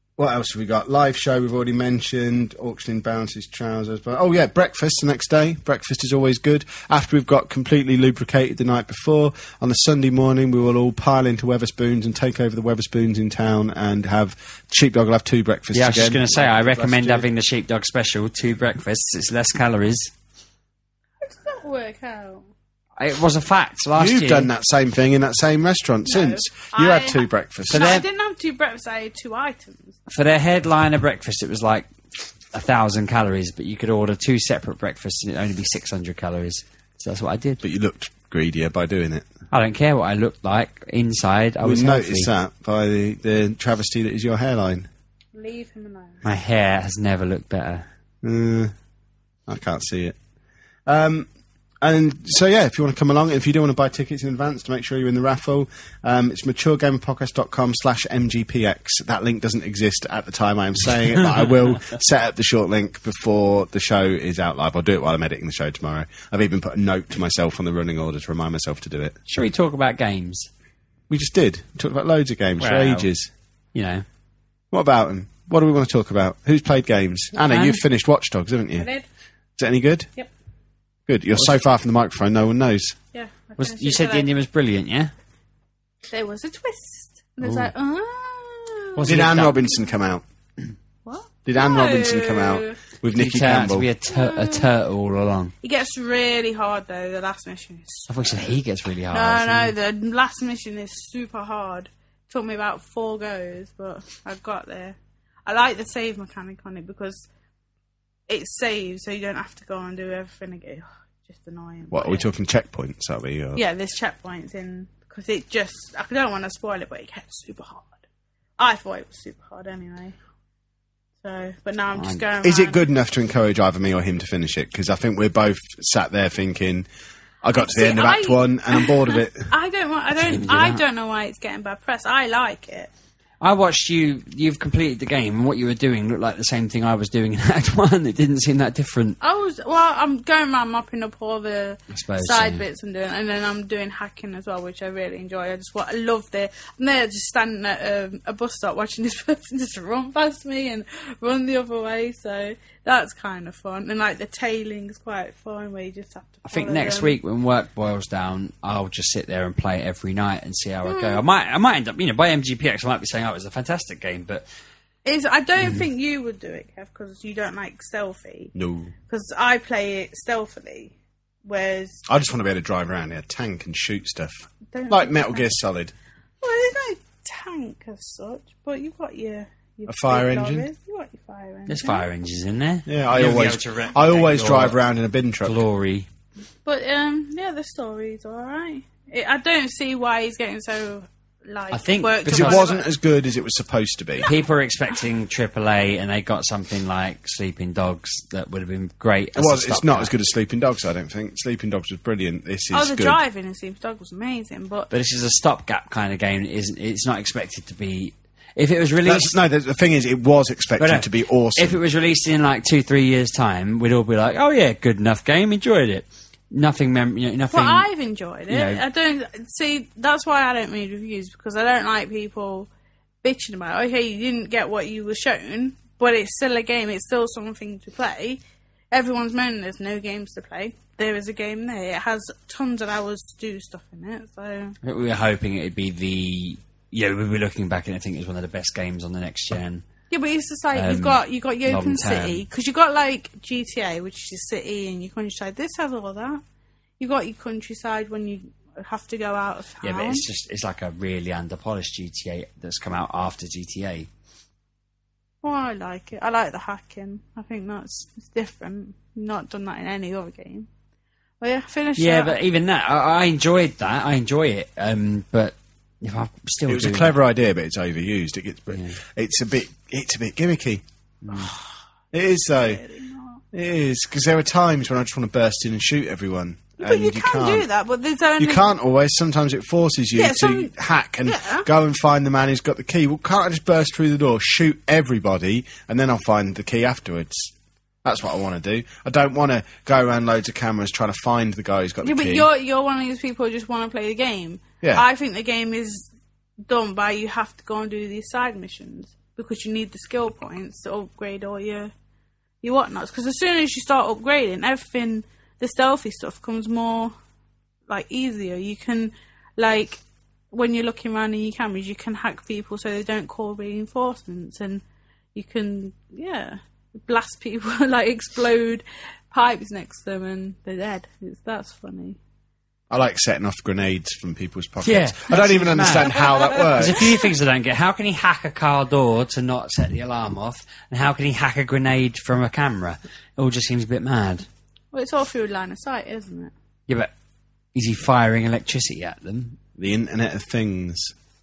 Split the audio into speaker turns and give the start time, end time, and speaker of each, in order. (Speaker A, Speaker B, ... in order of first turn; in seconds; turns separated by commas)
Speaker A: 0.2-17.3, Speaker B: 15.7-20.1, Speaker C: 21.2-22.4, Speaker B: 23.0-24.5, Speaker A: 24.0-27.9, Speaker C: 26.1-30.0, Speaker B: 27.7-28.1, Speaker B: 30.1-31.9, Speaker B: 32.5-37.6, Speaker A: 37.6-39.3, Speaker B: 39.5-42.3, Speaker A: 41.6-44.9, Speaker C: 45.4-46.2, Speaker B: 46.2-47.9, Speaker A: 48.2-48.7, Speaker A: 49.5-50.2, Speaker A: 50.9-51.3, Speaker A: 51.8-69.2, Speaker B: 69.3-70.5, Speaker A: 71.1-73.3, Speaker B: 72.6-73.1, Speaker B: 73.7-74.0, Speaker A: 74.7-78.9, Speaker B: 77.5-77.8, Speaker C: 78.8-79.0, Speaker A: 79.6-80.1, Speaker A: 81.1-83.0, Speaker C: 83.1-84.3, Speaker B: 83.6-85.1, Speaker C: 86.1-89.1, Speaker B: 87.4-87.7, Speaker B: 89.0-89.7, Speaker A: 89.0-90.2, Speaker C: 91.0-92.8, Speaker A: 91.5-93.9, Speaker B: 93.1-95.5, Speaker C: 94.1-94.7, Speaker C: 95.6-98.5, Speaker B: 98.1-99.7, Speaker C: 99.1-107.3, Speaker C: 108.3-112.3, Speaker A: 111.9-113.6, Speaker C: 113.5-117.9, Speaker C: 118.6-120.2, Speaker C: 121.2-122.8, Speaker B: 121.9-122.2, Speaker A: 122.4-126.9, Speaker A: 127.4-129.5, Speaker C: 127.6-132.9, Speaker B: 130.2-130.8, Speaker B: 133.4-139.2, Speaker C: 139.2-157.2, Speaker B: 141.9-142.7, Speaker B: 156.5-164.5, Speaker C: 160.8-161.2, Speaker C: 165.1-168.5, Speaker A: 168.6-168.9, Speaker C: 169.1-170.9, Speaker C: 171.4-172.0, Speaker A: 172.1-175.9, Speaker C: 174.7-175.5, Speaker C: 176.4-182.1, Speaker A: 179.9-180.7, Speaker B: 181.7-184.8, Speaker A: 182.9-185.6, Speaker B: 185.4-186.1, Speaker C: 186.7-192.9, Speaker B: 191.7-192.7, Speaker A: 192.3-194.3, Speaker B: 194.2-200.1, Speaker A: 199.4-203.2, Speaker C: 202.7-204.9, Speaker B: 204.9-209.4, Speaker A: 209.1-211.8, Speaker B: 210.8-217.9, Speaker C: 217.5-222.7, Speaker B: 218.5-218.8, Speaker C: 223.2-234.8, Speaker B: 234.8-239.8, Speaker C: 240.1-246.4, Speaker B: 240.7-242.4, Speaker C: 247.0-250.2, Speaker B: 249.8-254.1, Speaker C: 255.4-260.7, Speaker C: 261.4-262.4, Speaker B: 262.0-267.2, Speaker A: 266.7-270.8, Speaker B: 268.7-269.0, Speaker B: 271.2-271.5, Speaker A: 272.1-272.8, Speaker C: 272.5-273.4, Speaker A: 273.5-277.7, Speaker C: 276.8-278.7, Speaker A: 278.4-292.5, Speaker C: 280.1-280.7, Speaker C: 281.2-281.7, Speaker C: 292.0-296.1, Speaker C: 296.7-301.9, Speaker C: 302.6-307.1, Speaker C: 307.9-314.8, Speaker C: 315.4-322.2, Speaker A: 322.9-327.2, Speaker B: 324.8-334.5, Speaker C: 325.9-327.3, Speaker C: 334.9-336.5, Speaker B: 337.7-339.6, Speaker A: 339.8-341.1